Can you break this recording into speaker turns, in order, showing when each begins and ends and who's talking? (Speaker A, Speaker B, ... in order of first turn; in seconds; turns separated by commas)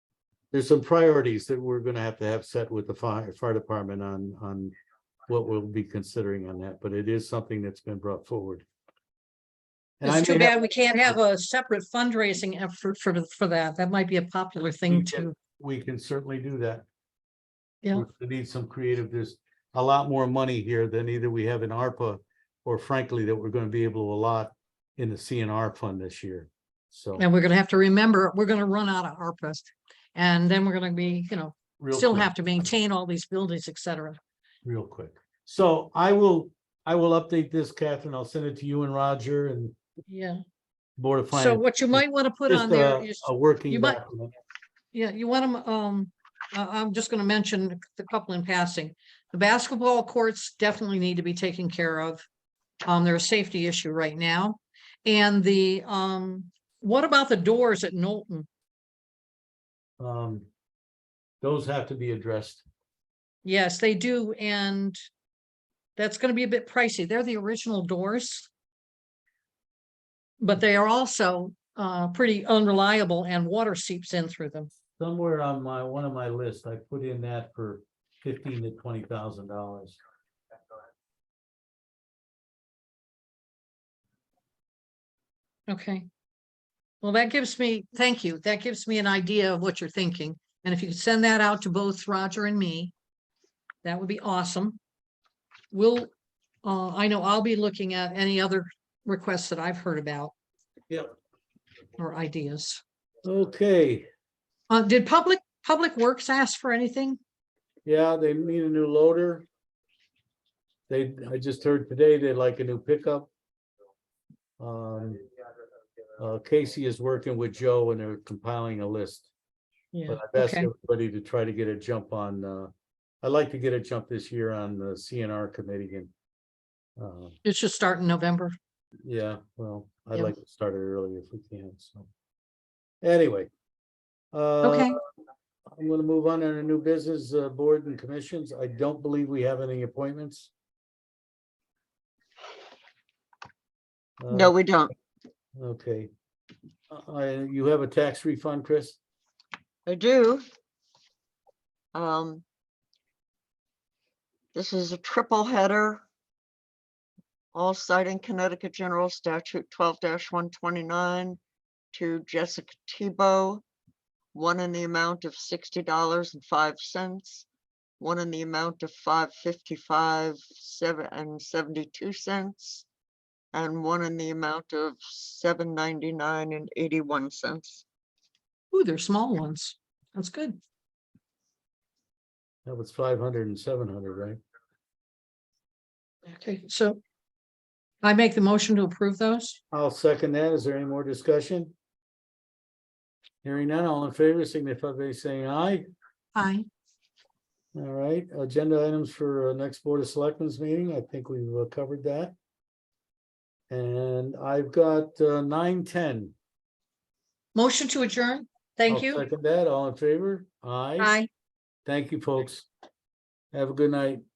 Speaker A: 0.5-4.7, Speaker A: 5.3-8.7, Speaker A: 10.0-11.1, Speaker B: 10.0-15.3, Speaker A: 14.9-16.9, Speaker A: 17.9-27.2, Speaker B: 27.2-34.2, Speaker A: 31.8-32.7, Speaker A: 34.6-39.8, Speaker B: 40.1-40.4, Speaker A: 41.0-44.3, Speaker B: 41.3-44.0, Speaker B: 44.9-52.2, Speaker B: 52.9-58.5, Speaker A: 60.0-60.5, Speaker A: 61.4-62.6, Speaker B: 63.5-65.0, Speaker B: 66.0-68.5, Speaker B: 70.4-74.7, Speaker A: 75.0-80.0, Speaker B: 85.7-86.1, Speaker B: 87.0-92.9, Speaker B: 93.8-94.8, Speaker B: 95.7-96.1, Speaker B: 96.6-100.3, Speaker B: 102.0-102.8, Speaker A: 103.2-104.1, Speaker B: 104.7-107.2, Speaker A: 107.8-109.5, Speaker A: 110.9-113.3, Speaker A: 114.6-115.2, Speaker A: 116.2-119.3, Speaker B: 119.9-120.7, Speaker A: 120.1-122.7, Speaker A: 123.2-126.1, Speaker A: 127.0-127.4, Speaker B: 127.5-128.6, Speaker A: 129.1-132.1, Speaker A: 133.0-133.5, Speaker A: 134.3-135.0, Speaker B: 134.6-135.0, Speaker A: 135.7-140.5, Speaker A: 144.2-144.5, Speaker C: 144.3-144.9, Speaker A: 145.6-146.1, Speaker A: 146.9-149.0, Speaker C: 149.9-150.5, Speaker C: 151.9-152.4, Speaker C: 154.5-156.0, Speaker C: 157.5-161.4, Speaker C: 161.9-163.6, Speaker C: 164.3-167.5, Speaker C: 168.0-172.9, Speaker C: 173.5-177.8, Speaker B: 178.7-180.6, Speaker A: 182.7-184.4, Speaker B: 186.3-187.0, Speaker B: 188.0-189.6, Speaker A: 189.7-191.7, Speaker A: 193.4-195.9, Speaker B: 196.3-196.7, Speaker A: 197.8-202.3, Speaker A: 203.7-206.3, Speaker B: 207.6-209.2, Speaker A: 208.9-211.2, Speaker B: 211.0-211.3, Speaker A: 211.9-212.7, Speaker A: 213.5-214.2